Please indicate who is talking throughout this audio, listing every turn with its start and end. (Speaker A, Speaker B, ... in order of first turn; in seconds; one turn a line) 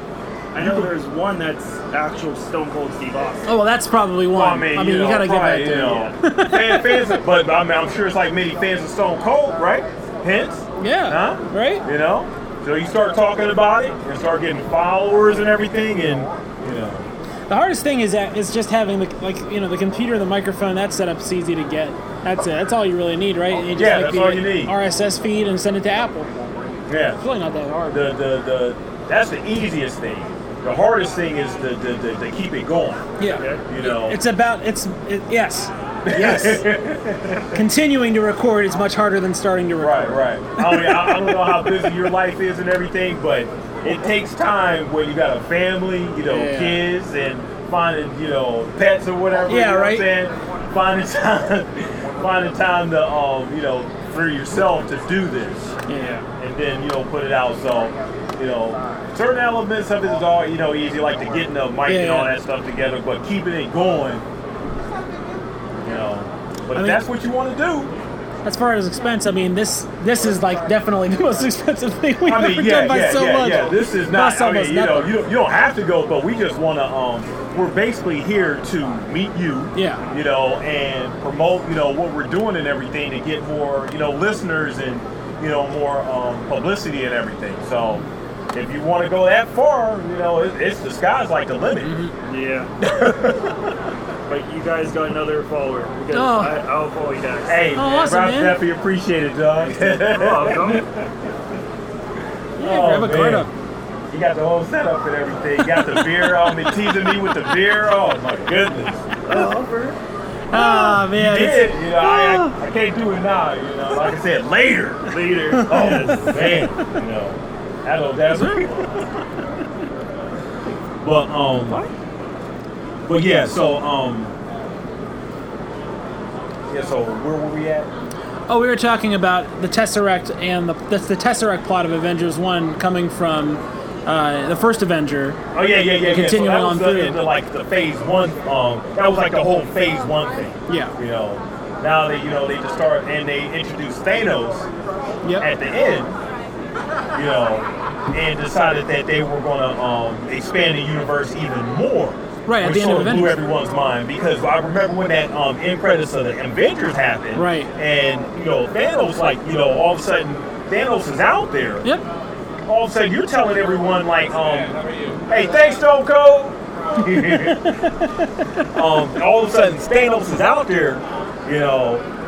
Speaker A: 0.5-3.5
Speaker B: 0.6-0.9
Speaker C: 3.5-7.1
Speaker B: 4.3-17.1
Speaker C: 10.8-11.8
Speaker C: 17.5-26.3
Speaker B: 23.7-24.7
Speaker B: 26.9-27.2
Speaker C: 27.2-28.1
Speaker B: 27.9-34.2
Speaker C: 33.2-36.7
Speaker A: 33.4-33.6
Speaker B: 36.0-37.6
Speaker C: 37.5-42.0
Speaker B: 39.8-55.8
Speaker C: 46.3-46.9
Speaker C: 49.5-50.1
Speaker C: 55.9-56.3
Speaker B: 56.4-64.2
Speaker C: 61.9-62.3
Speaker B: 65.8-67.9
Speaker C: 66.7-67.0
Speaker C: 68.4-75.2
Speaker B: 72.2-91.9
Speaker C: 79.8-80.0
Speaker C: 91.8-92.1
Speaker A: 92.3-92.7
Speaker B: 92.8-93.7
Speaker A: 94.3-97.7
Speaker C: 96.1-96.6
Speaker B: 97.5-101.1
Speaker C: 97.8-98.6
Speaker A: 99.9-100.8
Speaker B: 102.6-103.5
Speaker C: 102.6-103.5
Speaker B: 104.1-109.1
Speaker C: 105.8-106.1
Speaker A: 109.2-110.0
Speaker C: 110.5-112.5
Speaker B: 110.5-119.1
Speaker A: 115.1-116.0
Speaker C: 115.5-116.6
Speaker C: 118.3-118.7
Speaker B: 121.0-121.8
Speaker B: 123.1-124.3
Speaker B: 126.7-127.9
Speaker C: 128.5-135.4
Speaker B: 135.5-144.7
Speaker C: 136.0-137.2
Speaker C: 140.7-140.9
Speaker C: 145.2-145.5
Speaker B: 145.4-146.2
Speaker B: 147.1-161.8
Speaker C: 152.5-153.4
Speaker C: 157.4-157.7
Speaker B: 162.7-167.9
Speaker C: 167.1-168.7
Speaker B: 168.7-172.1